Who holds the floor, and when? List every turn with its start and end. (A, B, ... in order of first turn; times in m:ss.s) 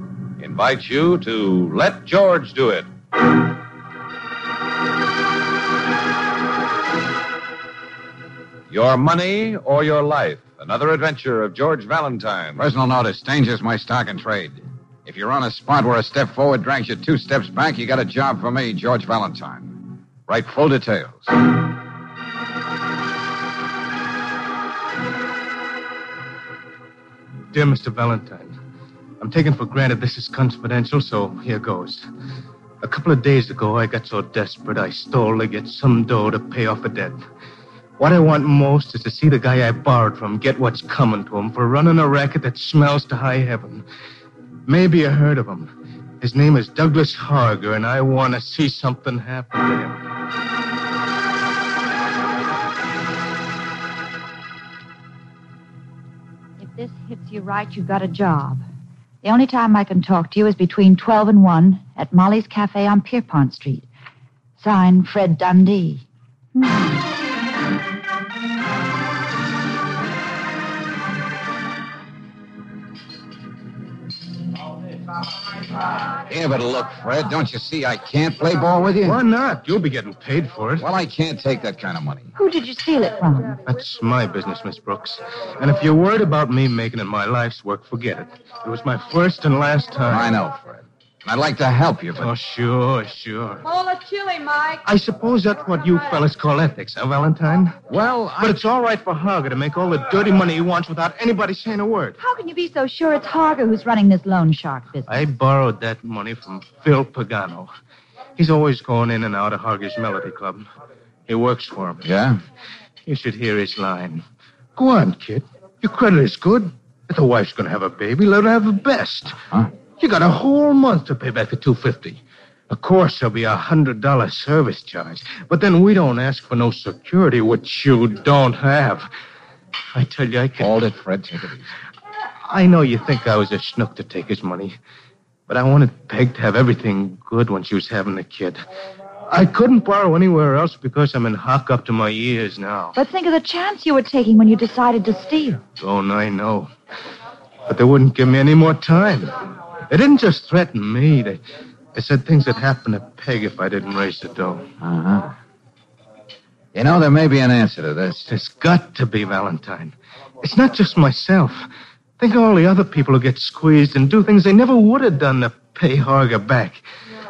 0:00.4-0:02.9 A
0:08.7-0:12.6 A
0:12.6-0:21.3 B
0:27.5-0:28.6 C
0:29.2-0:32.1 C
0:32.8-0:37.2 C
0:38.0-0:43.8 C
0:44.6-0:50.0 C
0:56.6-0:58.6 D
0:59.2-1:03.9 D
1:04.6-1:06.9 D
1:16.3-1:19.2 B
1:19.0-1:20.9 C
1:20.8-1:22.3 B
1:22.4-1:23.6 D
1:23.6-1:30.3 C
1:30.1-1:32.3 B
1:32.2-1:34.0 C
1:34.7-1:37.8 C
1:37.9-1:38.6 B
1:38.4-1:42.2 C
1:42.2-1:45.2 D
1:45.1-1:47.7 C
1:48.4-1:50.6 C
1:51.3-1:52.0 C
1:52.0-1:52.4 B
1:53.0-1:54.2 C
1:54.8-1:59.4 C
2:00.0-2:09.1 C
2:09.9-2:10.7 C
2:10.6-2:11.7 B
2:12.5-2:14.8 C
2:15.5-2:18.6 C
2:19.3-2:22.9 C
2:22.9-2:25.6 D
2:25.8-2:26.7 C
2:27.7-2:29.3 C
2:29.9-2:31.4 C
2:31.9-2:34.6 C
2:34.8-2:35.3 B
2:36.7-2:38.2 B
2:38.2-2:41.6 C
2:42.2-2:46.8 C